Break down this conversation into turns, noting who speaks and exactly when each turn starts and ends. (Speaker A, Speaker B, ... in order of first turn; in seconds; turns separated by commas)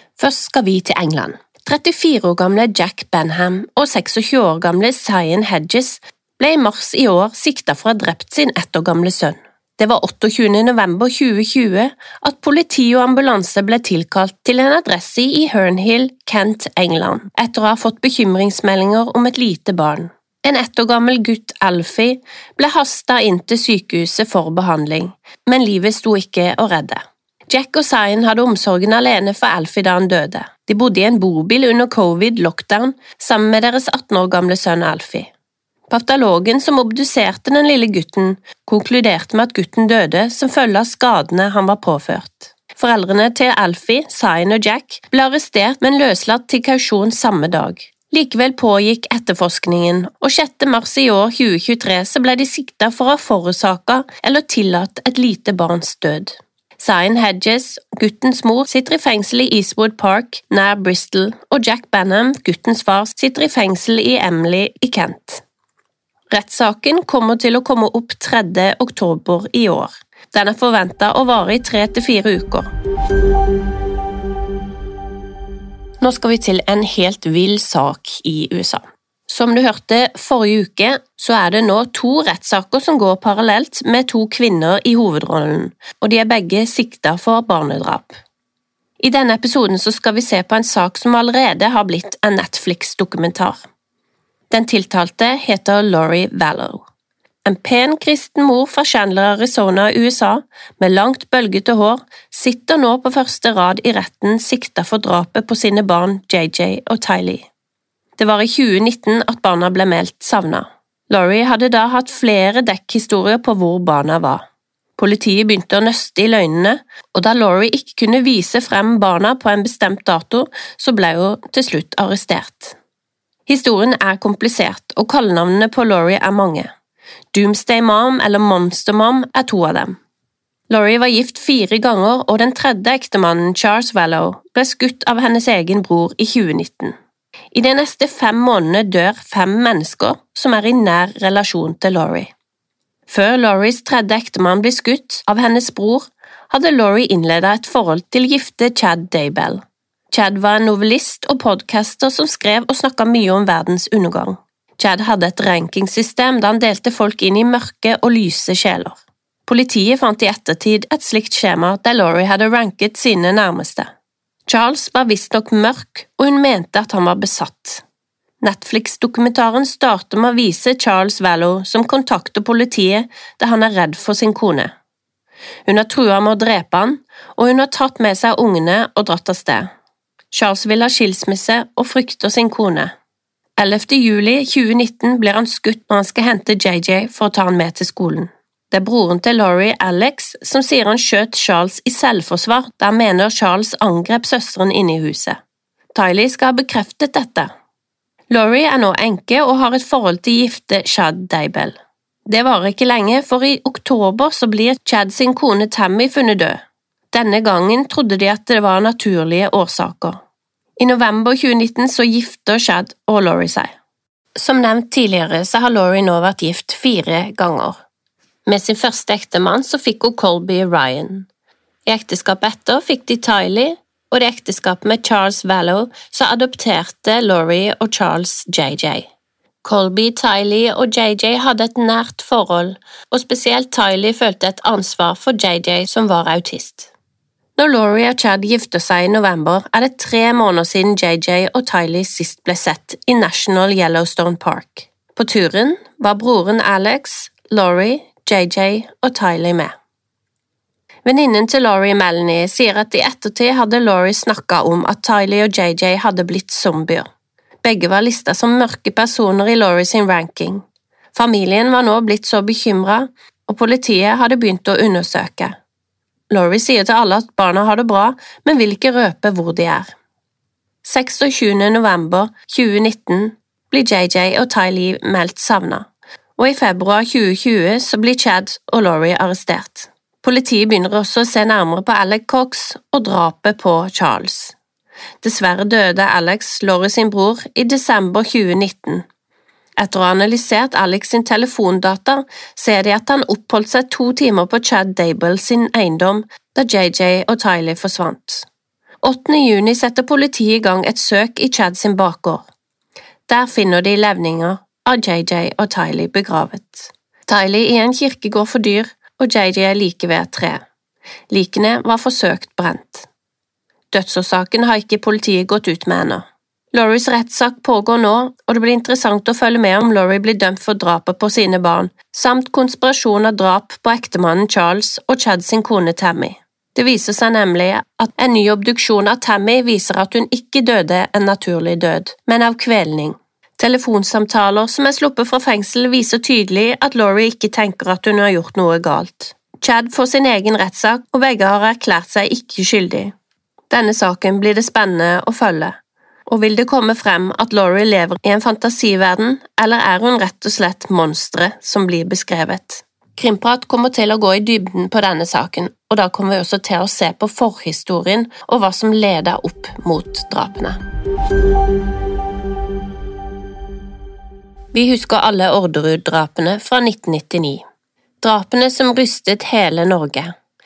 Speaker A: 0.2-35.3, Speaker A: 35.9-65.5, Speaker A: 66.3-72.7, Speaker A: 76.0-88.2, Speaker A: 89.0-93.6, Speaker A: 94.5-96.8, Speaker A: 97.5-107.5, Speaker A: 108.2-114.4, Speaker A: 115.0-122.8, Speaker A: 123.5-126.7, Speaker A: 127.3-130.0, Speaker A: 130.7-136.9, Speaker A: 137.5-142.3, Speaker A: 143.1-163.9, Speaker A: 164.5-167.8, Speaker A: 168.4-174.7, Speaker A: 175.7-179.7, Speaker A: 180.3-182.9, Speaker A: 183.6-195.4, Speaker A: 195.9-197.5, Speaker A: 198.3-206.6, Speaker A: 207.1-210.2, Speaker A: 210.8-213.7, Speaker A: 214.4-217.8, Speaker A: 218.5-221.3, Speaker A: 221.9-229.1, Speaker A: 229.6-236.9, Speaker A: 237.6-249.7, Speaker A: 251.1-257.1, Speaker A: 257.6-260.6, Speaker A: 261.1-265.6, Speaker A: 266.3-269.9, Speaker A: 270.8-284.6, Speaker A: 285.2-289.1, Speaker A: 289.8-298.5, Speaker A: 299.0-302.4, Speaker A: 303.3-310.6, Speaker A: 311.3-313.1, Speaker A: 313.9-343.1, Speaker A: 343.7-345.8, Speaker A: 346.3-360.8, Speaker A: 364.7-367.6, Speaker A: 368.2-370.3